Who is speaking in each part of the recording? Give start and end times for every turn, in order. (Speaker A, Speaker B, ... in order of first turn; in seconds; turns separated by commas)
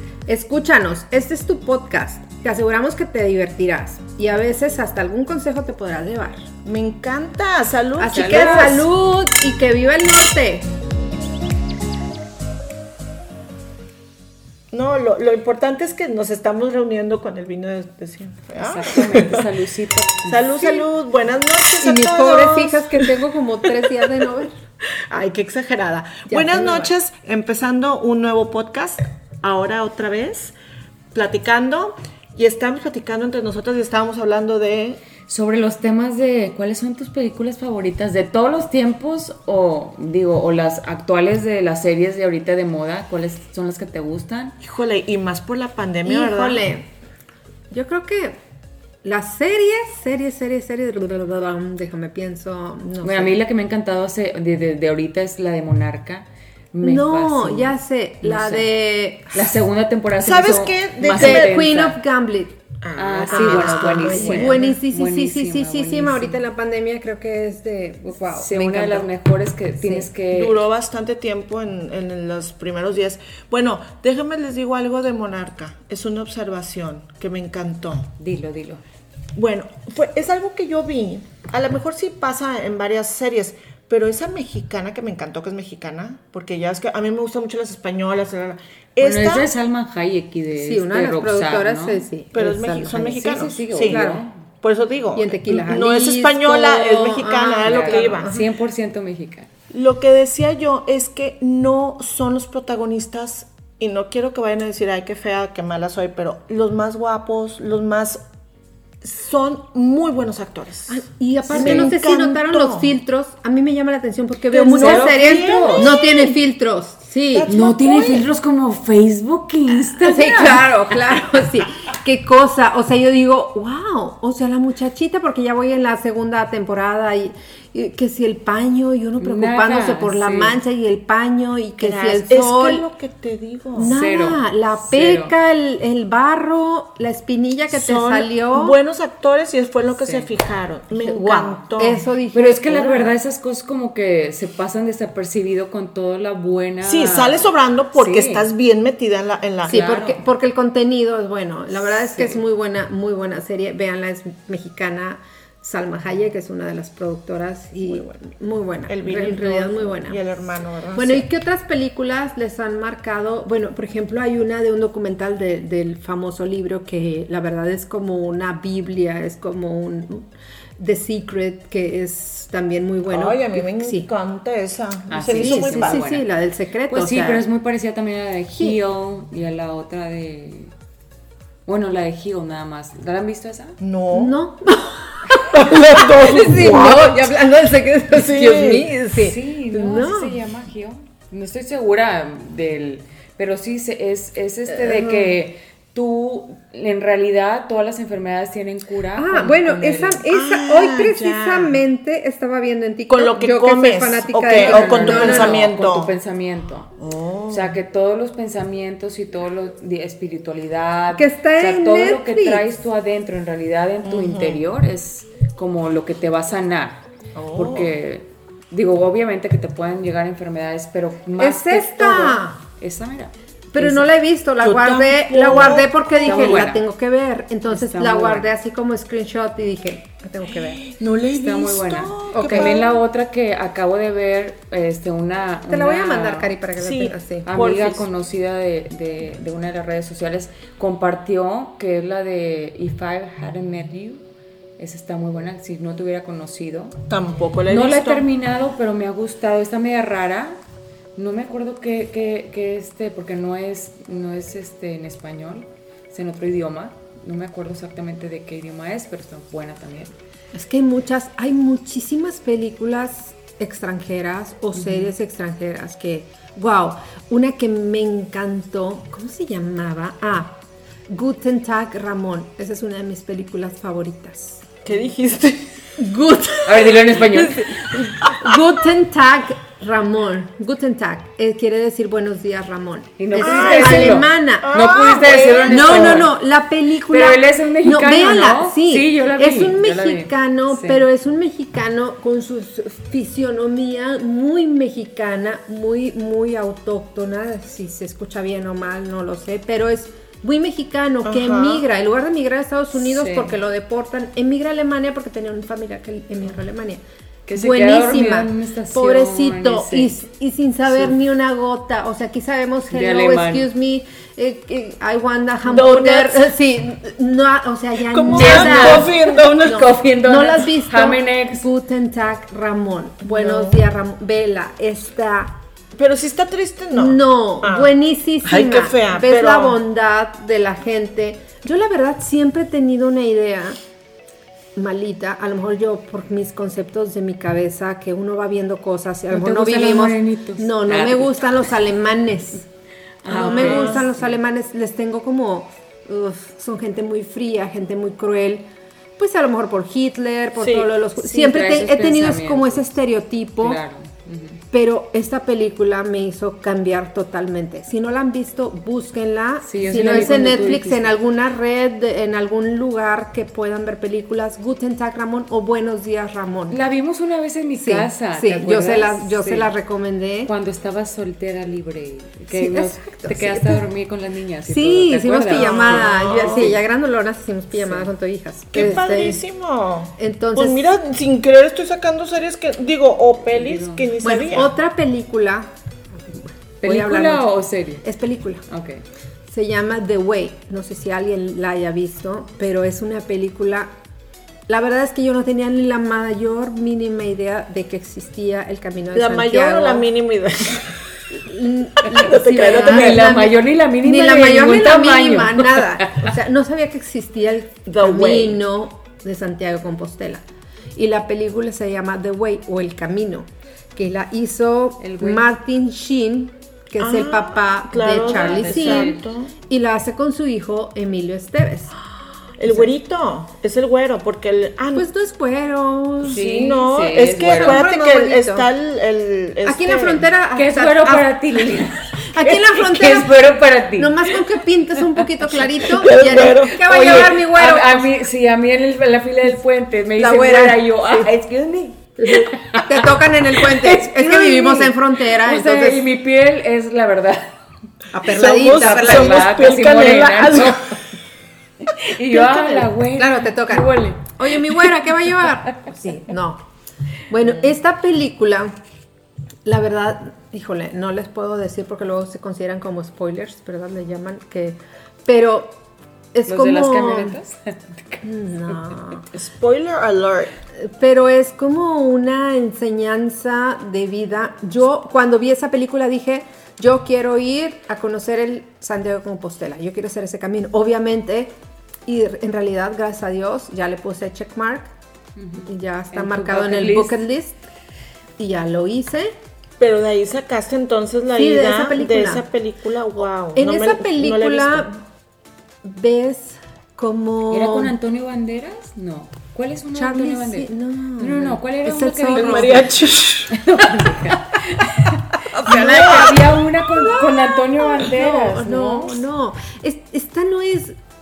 Speaker A: 0.2-6.5, Speaker B: 6.6-8.9, Speaker A: 8.0-10.7, Speaker C: 8.1-8.8, Speaker B: 14.7-19.5, Speaker C: 18.6-20.6, Speaker B: 20.3-23.1, Speaker A: 20.6-20.9, Speaker A: 21.8-24.6, Speaker B: 25.1-30.5, Speaker A: 26.3-26.9, Speaker B: 31.1-35.0, Speaker C: 35.3-44.6, Speaker B: 44.6-46.6, Speaker A: 46.0-46.9, Speaker A: 47.7-48.4, Speaker A: 49.0-53.4, Speaker C: 53.0-58.7, Speaker A: 56.8-59.4, Speaker C: 59.3-62.0, Speaker B: 60.2-61.5, Speaker A: 61.2-62.6, Speaker B: 62.8-64.7, Speaker C: 63.0-66.4, Speaker A: 63.3-69.1, Speaker C: 68.3-70.6, Speaker A: 69.8-70.1, Speaker B: 70.3-78.1, Speaker C: 78.2-78.8, Speaker B: 79.3-89.5, Speaker C: 89.0-92.1, Speaker A: 90.6-94.2, Speaker B: 92.3-94.0, Speaker C: 93.1-94.4, Speaker B: 94.6-98.3, Speaker A: 95.1-98.5, Speaker C: 97.6-99.5, Speaker B: 99.7-108.2, Speaker B: 109.0-112.9, Speaker A: 110.9-117.5, Speaker C: 111.5-111.9, Speaker B: 114.5-116.3, Speaker C: 114.7-115.9, Speaker B: 117.3-118.3, Speaker C: 117.5-120.7, Speaker A: 120.0-132.8, Speaker C: 129.2-130.6, Speaker B: 131.8-133.9, Speaker A: 133.7-138.8, Speaker C: 133.8-135.3, Speaker B: 137.7-142.1, Speaker C: 140.0-140.3, Speaker A: 140.9-143.1, Speaker C: 142.3-148.4, Speaker B: 146.8-149.8, Speaker A: 149.6-160.2, Speaker C: 149.7-150.2, Speaker C: 151.9-152.4, Speaker B: 157.8-158.2, Speaker B: 158.9-161.3, Speaker A: 160.9-174.1, Speaker B: 173.1-176.0, Speaker C: 175.1-176.3, Speaker A: 175.3-177.4, Speaker C: 176.9-180.7, Speaker C: 181.7-183.8, Speaker B: 183.8-184.3, Speaker A: 184.1-190.4, Speaker B: 185.5-187.3, Speaker B: 188.1-188.9, Speaker C: 189.1-200.2, Speaker A: 194.8-195.2, Speaker A: 199.1-205.7, Speaker B: 200.3-201.8, Speaker B: 203.1-206.1, Speaker C: 204.5-206.9, Speaker B: 207.0-207.8, Speaker C: 207.5-217.0, Speaker A: 211.1-212.7, Speaker B: 214.0-214.6, Speaker B: 217.3-217.9, Speaker C: 217.5-224.1, Speaker A: 221.4-222.6, Speaker A: 223.7-230.8, Speaker B: 224.6-226.7, Speaker C: 226.2-226.8, Speaker C: 227.7-228.5, Speaker B: 230.5-232.9, Speaker C: 231.3-236.5, Speaker A: 232.3-232.8, Speaker A: 235.7-237.5, Speaker B: 236.8-238.1, Speaker C: 237.4-244.2, Speaker C: 244.8-247.0, Speaker B: 247.1-248.2, Speaker C: 247.7-250.6, Speaker C: 251.2-260.1, Speaker A: 260.5-274.8, Speaker C: 264.8-265.1, Speaker B: 274.8-275.8, Speaker A: 276.0-284.8, Speaker C: 276.6-277.7, Speaker B: 277.1-278.6, Speaker C: 283.2-286.3, Speaker B: 283.4-286.3, Speaker A: 285.6-307.0, Speaker C: 287.1-291.1, Speaker B: 301.2-301.8, Speaker C: 303.0-303.6, Speaker C: 307.5-310.1, Speaker A: 307.5-325.6, Speaker C: 312.9-313.7, Speaker B: 315.7-316.5, Speaker B: 318.1-319.9, Speaker C: 318.3-321.6, Speaker B: 323.3-323.8, Speaker B: 326.0-327.9, Speaker A: 326.9-333.8, Speaker B: 328.4-329.8, Speaker A: 334.8-342.7, Speaker C: 339.3-341.4, Speaker C: 343.2-344.4, Speaker A: 343.3-353.8, Speaker B: 343.3-344.0, Speaker B: 350.6-350.9, Speaker C: 351.2-352.9, Speaker C: 353.6-354.6, Speaker A: 354.7-366.8, Speaker C: 359.6-361.1, Speaker C: 366.7-369.7, Speaker A: 367.8-370.5, Speaker C: 370.4-376.8, Speaker A: 372.5-373.8, Speaker A: 374.7-379.4, Speaker B: 375.5-376.8, Speaker C: 377.8-378.1, Speaker B: 378.7-384.7, Speaker A: 380.2-380.9, Speaker C: 383.4-384.1, Speaker A: 384.2-387.5, Speaker C: 386.8-388.1, Speaker A: 388.0-388.6, Speaker C: 388.7-389.0, Speaker A: 389.5-393.9, Speaker A: 394.7-400.1, Speaker B: 399.1-401.0, Speaker A: 401.3-410.4, Speaker B: 402.0-403.3, Speaker C: 402.8-406.3, Speaker B: 407.9-408.6, Speaker A: 410.9-419.1, Speaker C: 415.0-415.5, Speaker B: 417.0-419.5, Speaker C: 418.2-419.2, Speaker A: 419.7-421.9, Speaker B: 422.6-425.1, Speaker A: 424.9-426.6, Speaker C: 426.2-427.9, Speaker B: 426.3-430.2, Speaker A: 427.4-428.7, Speaker A: 429.6-433.4, Speaker C: 430.6-434.4, Speaker A: 433.9-438.1, Speaker B: 435.7-437.3, Speaker C: 436.8-447.5, Speaker A: 440.2-441.3, Speaker A: 442.2-446.1, Speaker A: 448.1-449.5, Speaker B: 448.3-451.0, Speaker C: 448.7-451.0, Speaker C: 451.8-454.9, Speaker B: 452.3-452.8, Speaker A: 453.1-456.6, Speaker A: 457.3-458.7, Speaker A: 459.6-465.8, Speaker A: 466.3-467.4, Speaker C: 466.4-468.2, Speaker A: 468.2-469.3, Speaker B: 469.3-470.5, Speaker A: 470.8-481.5, Speaker A: 482.1-484.9, Speaker C: 485.4-487.2, Speaker A: 485.6-487.6, Speaker A: 488.4-489.3, Speaker B: 489.8-494.9, Speaker A: 491.4-492.4, Speaker A: 493.6-495.0, Speaker A: 495.8-497.9, Speaker C: 497.5-502.9, Speaker A: 499.9-503.0, Speaker B: 502.3-503.5, Speaker C: 503.5-509.2, Speaker A: 505.6-511.0, Speaker B: 505.7-506.3